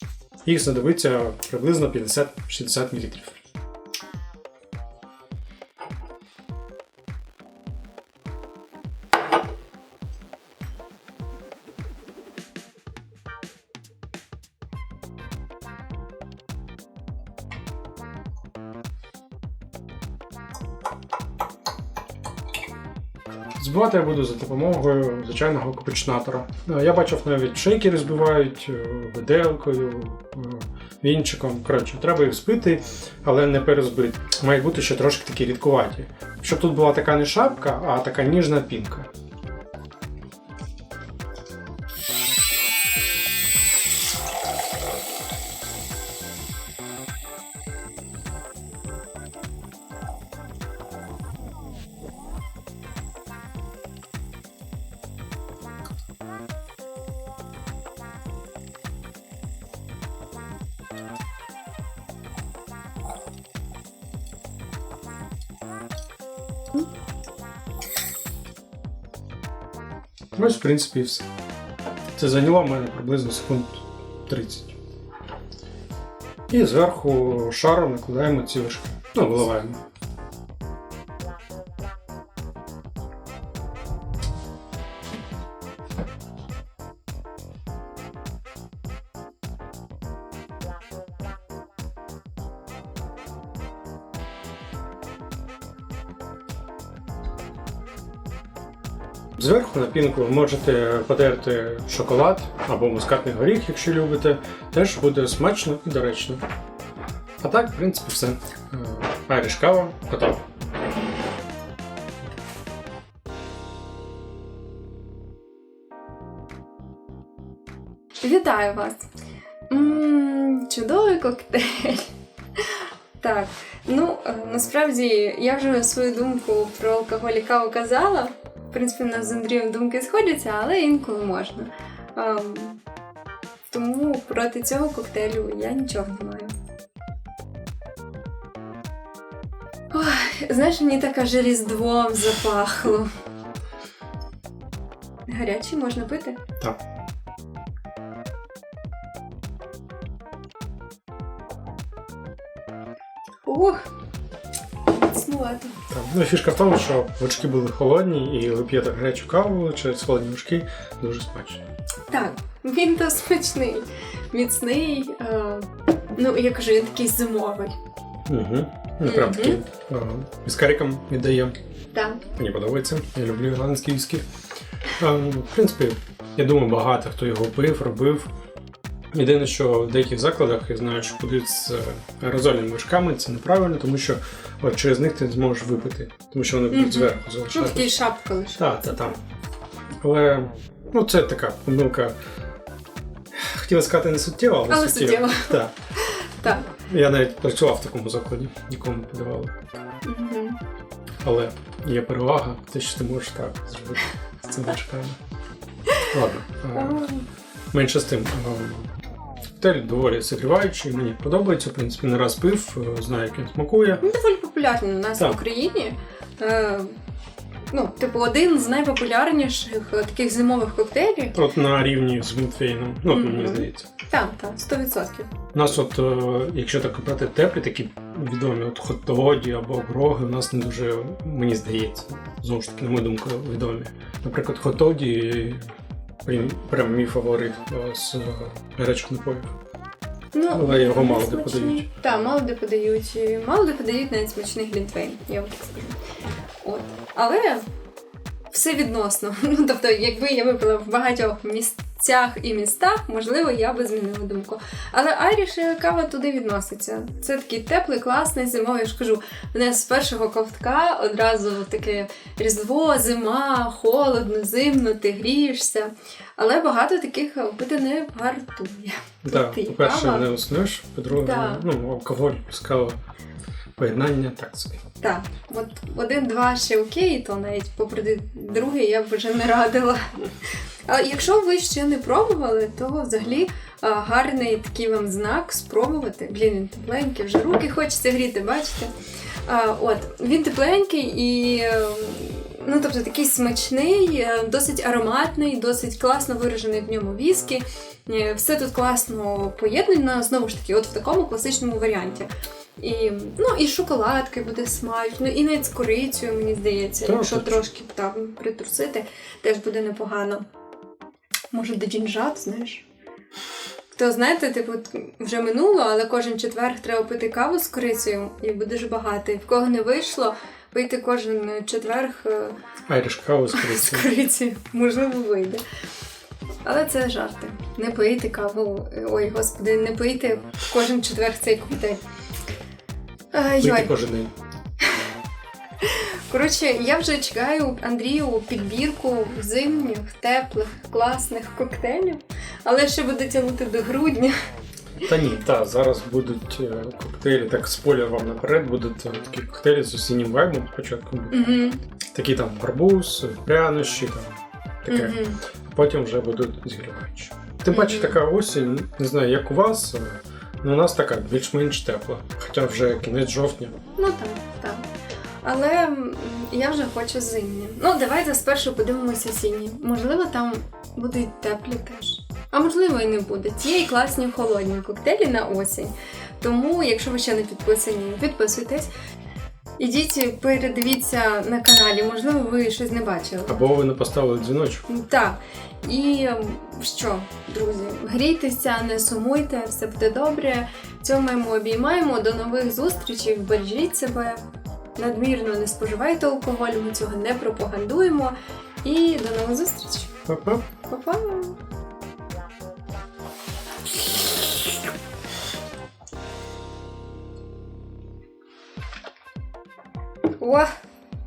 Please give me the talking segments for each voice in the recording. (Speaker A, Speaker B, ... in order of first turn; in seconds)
Speaker A: 0.4-3.4, 23.6-39.1, 70.3-71.3, 72.1-74.8, 76.5-79.8, 99.4-106.4, 107.4-110.4, 155.9-161.6, 168.3-171.6, 172.4-174.2, 174.9-178.3, 179.1-187.9, 188.6-189.2, 190.0-192.2, 193.3-195.7, 196.5-199.6, 201.2-205.2, 206.0-207.1, 207.7-208.9, 209.6-214.0, 221.3-223.9, 225.5-235.6, 236.2-239.5, 240.5-241.9, 269.2-273.0, 273.8-274.8, 307.0-307.6, 322.9-324.1, 333.6-334.3, 345.0-351.6, 352.1-363.8, 383.5-384.9, 400.2-400.6
Speaker B: 118.2-119.1, 119.7-132.8, 133.7-136.6, 139.9-143.1, 145.3-146.4, 153.4-153.9, 154.9-155.8, 162.1-167.7, 169.0-169.6, 171.9-172.2, 186.7-189.2, 194.7-196.7, 200.0-200.6, 206.7-207.3, 214.0-216.9, 217.7-221.4, 223.1-225.3, 240.3-246.0, 246.6-247.6, 248.5-270.3, 271.1-271.6, 275.0-280.3, 280.9-288.9, 289.4-302.3, 302.8-310.4, 311.5-312.8, 313.9-322.6, 323.5-325.6, 326.6-332.0, 333.3-333.9, 335.8-344.3, 351.3-351.8, 354.9-355.4, 357.7-358.2, 364.0-364.9, 365.4-378.9, 379.8-383.5, 384.9-394.4, 395.0-400.1, 400.9-401.6, 410.4-410.7